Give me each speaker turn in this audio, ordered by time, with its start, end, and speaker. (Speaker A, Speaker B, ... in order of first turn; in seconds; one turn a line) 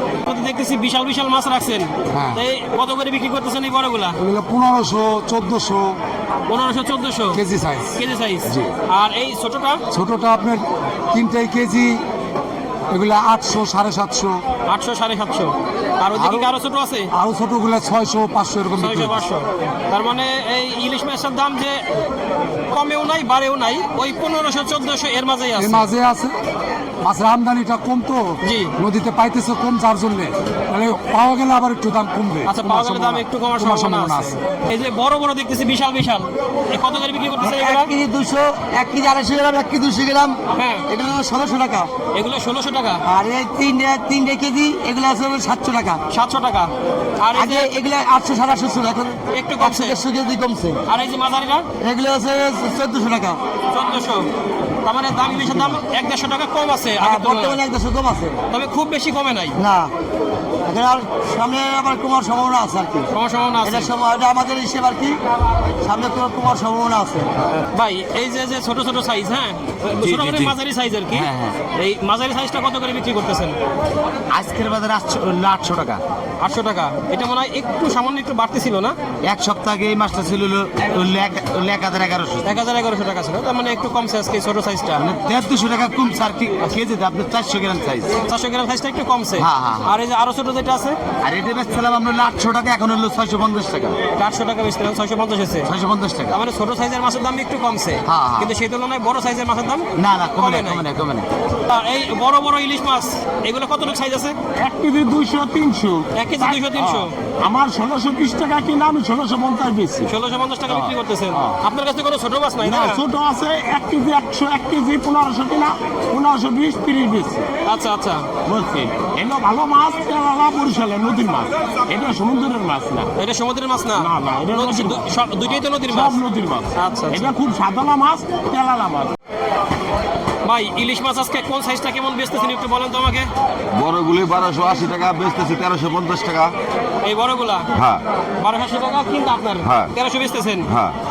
Speaker A: 0.2-4.2
Speaker B: 2.1-2.4
Speaker B: 4.2-6.0
Speaker A: 6.5-7.4
Speaker B: 7.3-8.7
Speaker A: 8.0-9.8
Speaker B: 9.9-12.0
Speaker B: 12.9-14.4
Speaker A: 14.7-17.1
Speaker B: 16.1-16.5
Speaker B: 17.1-19.2
Speaker A: 18.8-21.9
Speaker A: 22.7-25.9
Speaker B: 25.6-26.4
Speaker B: 27.0-34.4
Speaker A: 28.4-28.7
Speaker A: 32.5-37.9
Speaker C: 37.4-41.9
Speaker A: 40.5-40.9
Speaker A: 42.1-43.0
Speaker C: 43.1-46.0
Speaker A: 46.1-47.7
Speaker C: 47.4-50.8
Speaker A: 49.3-50.0
Speaker A: 50.9-51.7
Speaker C: 51.8-53.4
Speaker A: 53.7-54.3
Speaker A: 54.8-57.6
Speaker C: 57.0-58.4
Speaker A: 58.5-59.6
Speaker C: 59.6-59.9
Speaker C: 60.7-63.1
Speaker A: 63.1-63.9
Speaker C: 63.6-65.2
Speaker C: 65.8-67.3
Speaker A: 67.7-73.6
Speaker C: 70.0-70.5
Speaker C: 71.1-71.6
Speaker C: 74.3-76.0
Speaker A: 76.4-79.0
Speaker C: 79.2-82.6
Speaker A: 82.4-85.1
Speaker C: 85.0-88.1
Speaker A: 88.2-91.0
Speaker C: 89.4-89.9
Speaker C: 91.2-94.0
Speaker A: 94.2-95.7
Speaker C: 95.7-96.4
Speaker A: 96.3-100.9
Speaker C: 98.1-98.5
Speaker C: 100.0-101.3
Speaker A: 101.7-104.4
Speaker D: 104.6-110.1
Speaker A: 106.2-107.1
Speaker A: 110.1-113.0
Speaker D: 110.7-111.6
Speaker D: 112.6-117.5
Speaker A: 117.6-118.2
Speaker D: 118.5-123.1
Speaker A: 123.2-126.2
Speaker D: 124.0-125.0
Speaker D: 125.9-129.1
Speaker A: 126.7-127.3
Speaker A: 130.4-133.3
Speaker E: 133.7-136.5
Speaker A: 137.0-137.7
Speaker E: 137.8-138.0
Speaker A: 138.4-140.7
Speaker E: 139.6-139.9
Speaker E: 140.7-141.0